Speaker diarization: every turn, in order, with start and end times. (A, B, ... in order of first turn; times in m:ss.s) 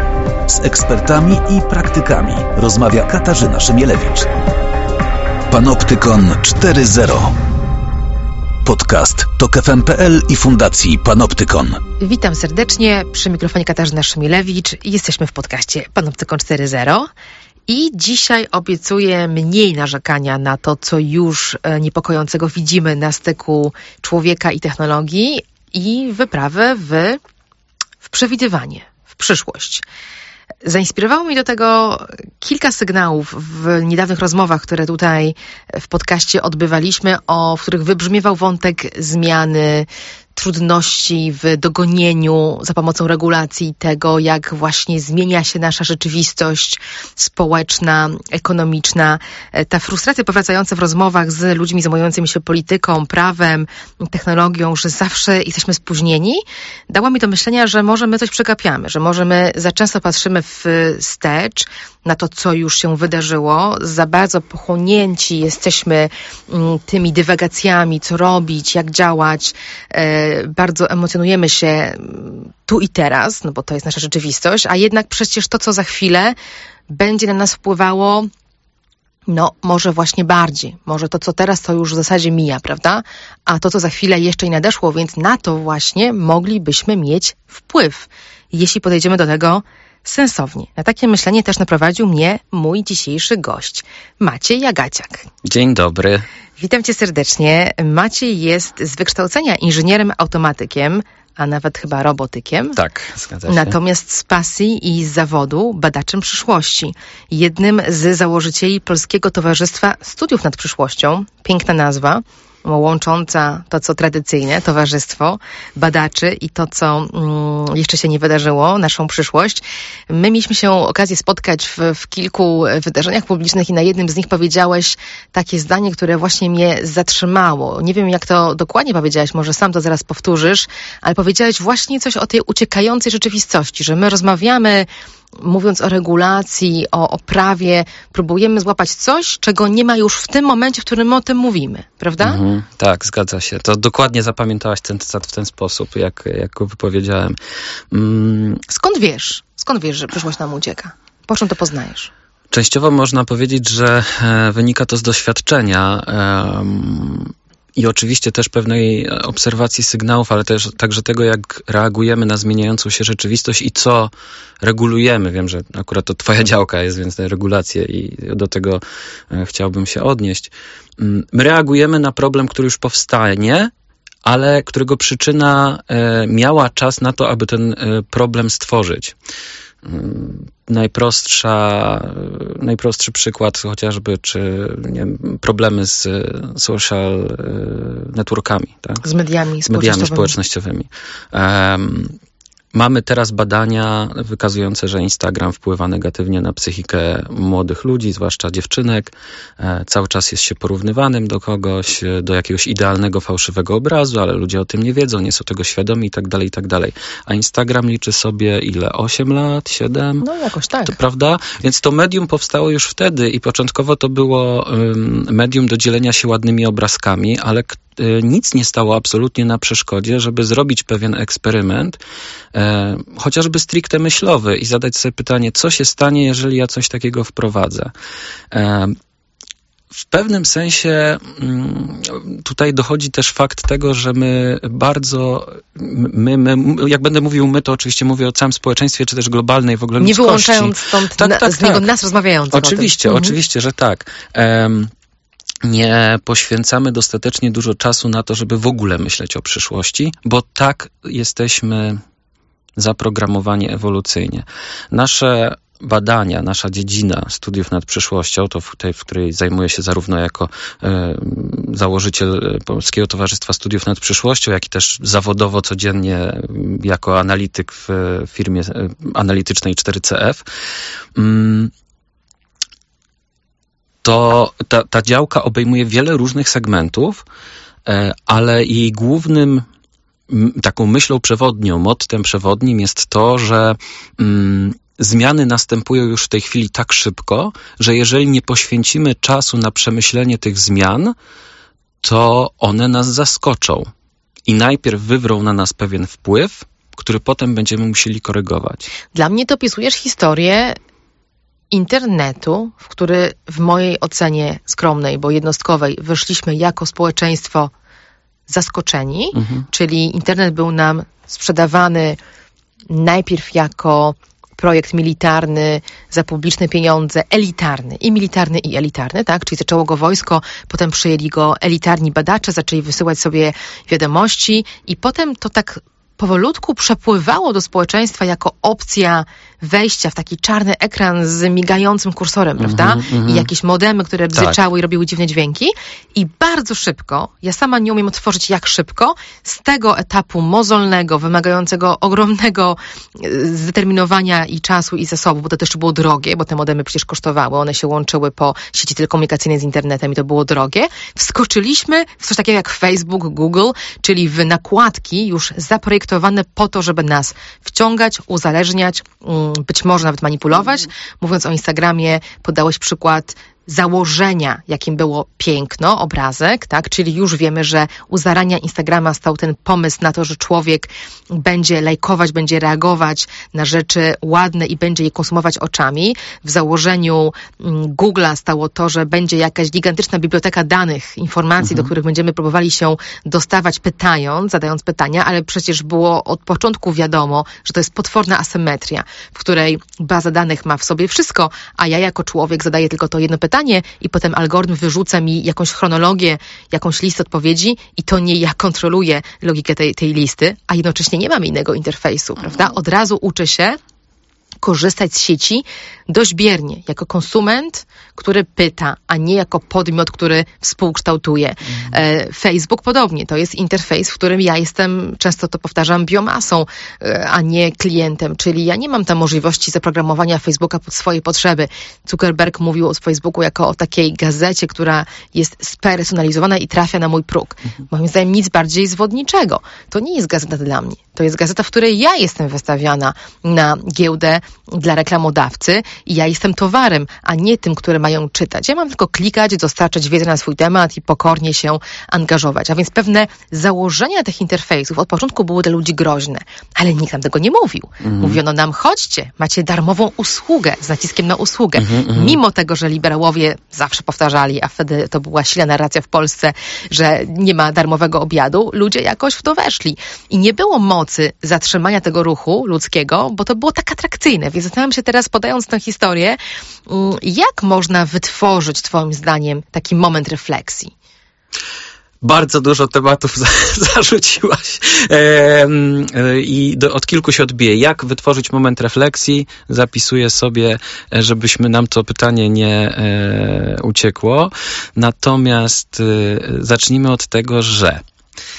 0:00.5-0:04.3 A
0:05.5-0:07.4 A
0:08.6-0:11.8 A
0:12.0-0:17.1 B
0:17.7-0:27.2 B
0:28.0-0:29.8 B
0:30.6-1:16.4 B
1:16.9-1:18.3 B
1:19.3-1:35.3 B
1:35.4-1:36.3 C
1:36.6-1:42.8 B
1:42.8-1:43.8 C
1:43.5-2:22.4 B
2:22.2-2:27.4 C
2:27.9-2:28.6 C
2:28.7-2:32.1 B
2:32.5-2:53.7 C
2:54.2-2:59.2 C
2:59.8-3:09.0 C
3:09.0-3:10.3 B
3:09.6-3:12.2 C
3:12.7-3:30.3 C
3:30.2-3:31.0 B
3:30.9-3:42.0 C
3:42.5-3:47.9 C
3:48.5-3:49.0 C
3:50.0-4:01.9 C
4:00.0-4:03.4 B
4:02.5-4:04.9 C
4:05.6-4:12.0 C
4:12.8-4:30.4 C
4:31.2-4:31.7 C
4:34.0-4:37.2 C
4:37.9-4:39.7 C
4:40.3-4:51.2 C
4:52.0-4:53.9 C
4:54.5-4:58.9 C
4:59.1-5:00.8 B
5:01.7-5:07.7 B
5:08.5-5:12.2 B
5:09.4-5:09.6 C
5:12.9-6:43.8 B
5:32.6-5:33.5 C
6:21.6-6:21.9 C
6:44.6-7:50.9 B
7:28.0-7:28.4 C
7:31.8-7:32.4 C
7:52.2-8:08.0 C